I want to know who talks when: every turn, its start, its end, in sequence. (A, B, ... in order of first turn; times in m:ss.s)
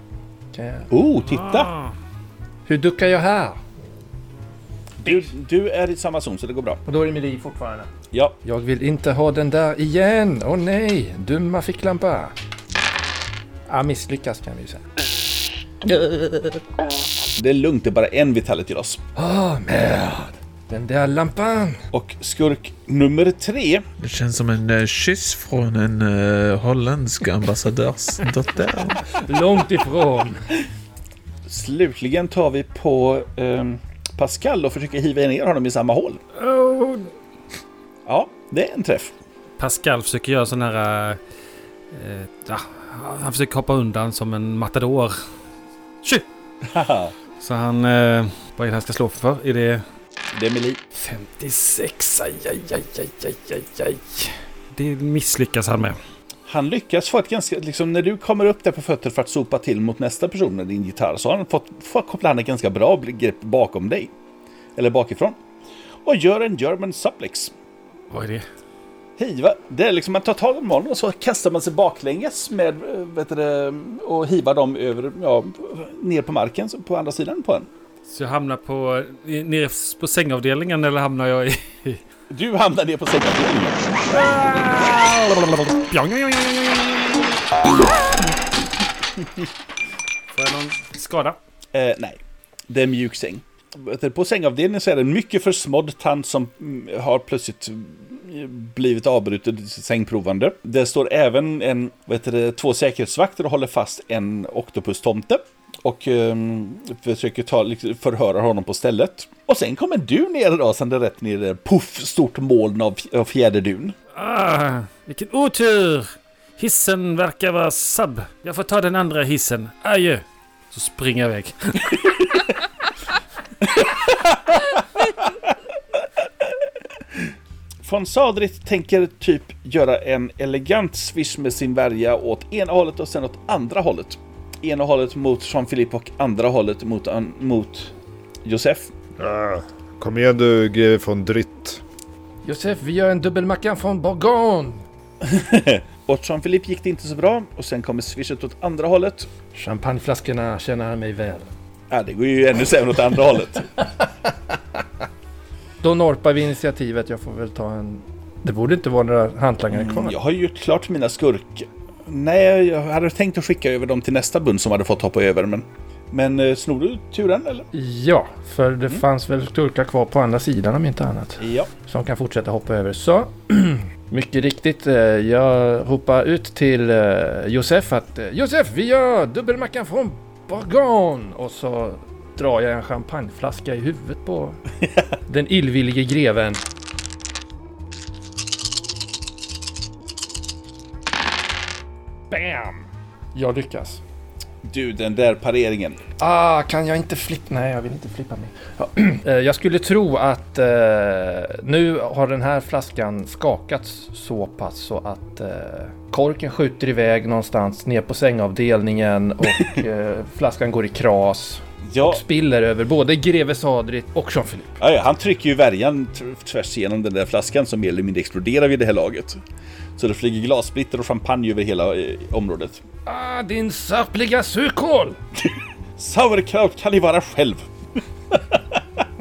0:00.5-0:00.9 A
0:00.9-0:01.7 B
0:01.3-0:01.9 C
0:02.7-0:03.6 A
0:05.0-0:06.8 B
0:06.8-0:07.9 A
0:08.4-0:12.3 A
0:13.7-0:14.8 A
0:15.8-0:16.6 A
0:17.4-0:19.0 B
0:19.2-0:21.8 A
0:21.9-0:23.8 B
0:24.0-0:29.1 D
0:29.2-0:30.4 A
0:31.5-0:36.2 B
0:36.5-0:36.9 C
0:36.6-0:37.0 A
0:38.0-0:39.1 B
0:39.6-0:41.2 C
0:41.9-0:45.2 C
0:46.6-0:47.1 B
0:47.4-0:49.8 C
0:50.3-0:50.8 B
0:50.9-0:56.0 C
0:56.5-1:04.1 B
1:04.8-1:05.4 B
1:06.0-1:07.5 B
1:08.1-1:08.4 C
1:09.2-1:17.7 B
1:18.1-1:22.0 C
1:22.3-1:23.9 B
1:24.1-1:27.3 C
1:30.3-1:31.4 C
1:31.7-1:54.0 B
1:54.1-2:02.2 C
2:03.7-2:04.6 B
2:07.8-2:17.9 B
2:18.4-2:18.9 B
2:19.2-2:21.8 E
2:22.4-2:24.8 A
2:25.2-2:29.3 B
2:29.5-2:31.5 A
2:31.9-2:33.7 B
2:35.8-2:40.1 A
2:39.7-2:47.7 B
2:47.7-3:04.6 A
2:51.4-2:51.7 B
3:05.3-3:06.6 A
3:12.3-3:14.0 A
3:14.6-3:16.0 B
3:16.2-3:34.7 A
3:31.8-3:32.2 B
3:34.8-3:39.4 B
3:40.0-3:42.8 B
3:43.0-3:45.2 A
3:46.0-3:47.6 B